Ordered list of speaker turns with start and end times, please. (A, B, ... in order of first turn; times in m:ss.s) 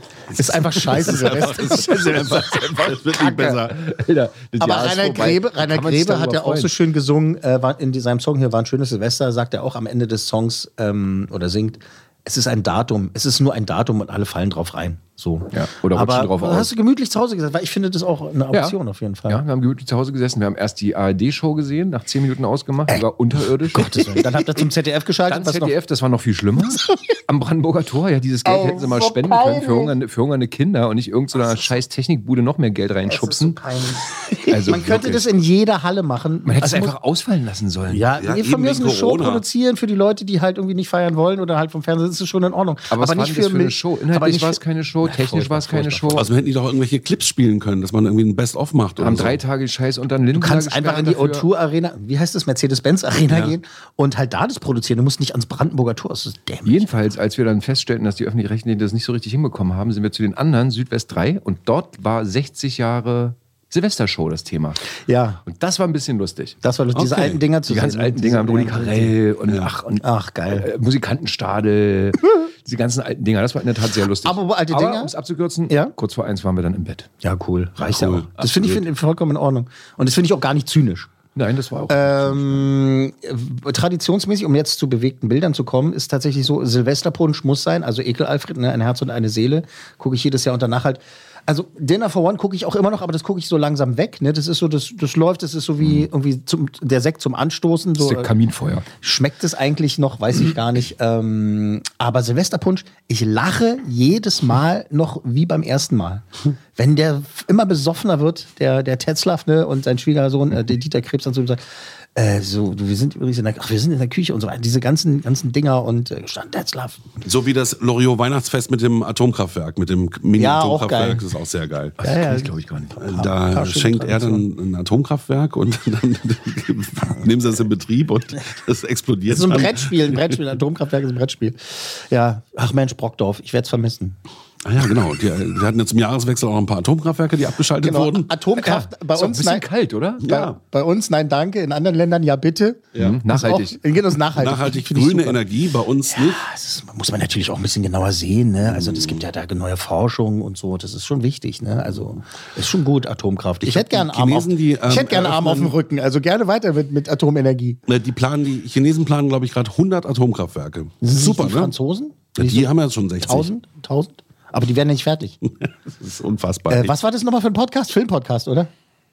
0:00.3-0:03.7 A
0:00.4-0:02.2 B
0:01.0-0:06.7 C
0:03.2-0:03.6 B
0:04.6-0:19.4 B
0:15.5-0:16.7 C
0:18.5-0:18.8 C
0:19.3-0:24.6 C
0:23.7-0:25.8 B
0:25.3-0:33.6 C
0:28.4-0:29.9 B
0:33.0-0:37.0 B
0:34.5-0:35.2 C
0:36.4-0:38.1 C
0:37.9-0:46.2 B
0:38.2-0:39.4 A
0:42.9-0:46.3 C
0:46.2-0:49.4 A
0:49.0-0:51.5 C
0:50.4-0:56.9 B
0:53.3-0:53.5 A
0:56.6-1:04.8 C
1:05.1-1:05.4 B
1:05.4-1:17.1 C
1:06.6-1:09.1 B
1:10.0-1:10.6 B
1:14.2-1:15.1 B
1:17.2-1:21.1 B
1:17.8-1:18.8 A
1:21.3-1:22.7 C
1:21.9-1:38.3 B
1:38.0-1:38.8 C
1:39.0-1:46.2 B
1:46.8-1:51.6 B
1:52.1-1:57.0 B
1:57.2-2:02.0 A
2:00.4-2:01.2 B
2:02.0-2:03.0 C
2:02.0-2:04.4 B
2:03.0-2:10.2 A
2:09.3-2:14.2 B
2:14.6-2:18.3 A
2:17.8-2:19.6 B
2:18.6-2:20.2 C
2:20.2-2:25.4 B
2:20.2-2:20.6 A
2:22.9-2:23.8 C
2:24.4-2:26.4 A
2:26.1-2:37.8 B
2:28.6-2:29.2 A
2:33.6-2:35.7 A
2:37.9-2:41.7 A
2:41.0-2:42.7 B
2:42.4-2:43.5 A
2:43.2-2:45.4 B
2:46.0-2:46.9 A
2:46.7-2:48.7 B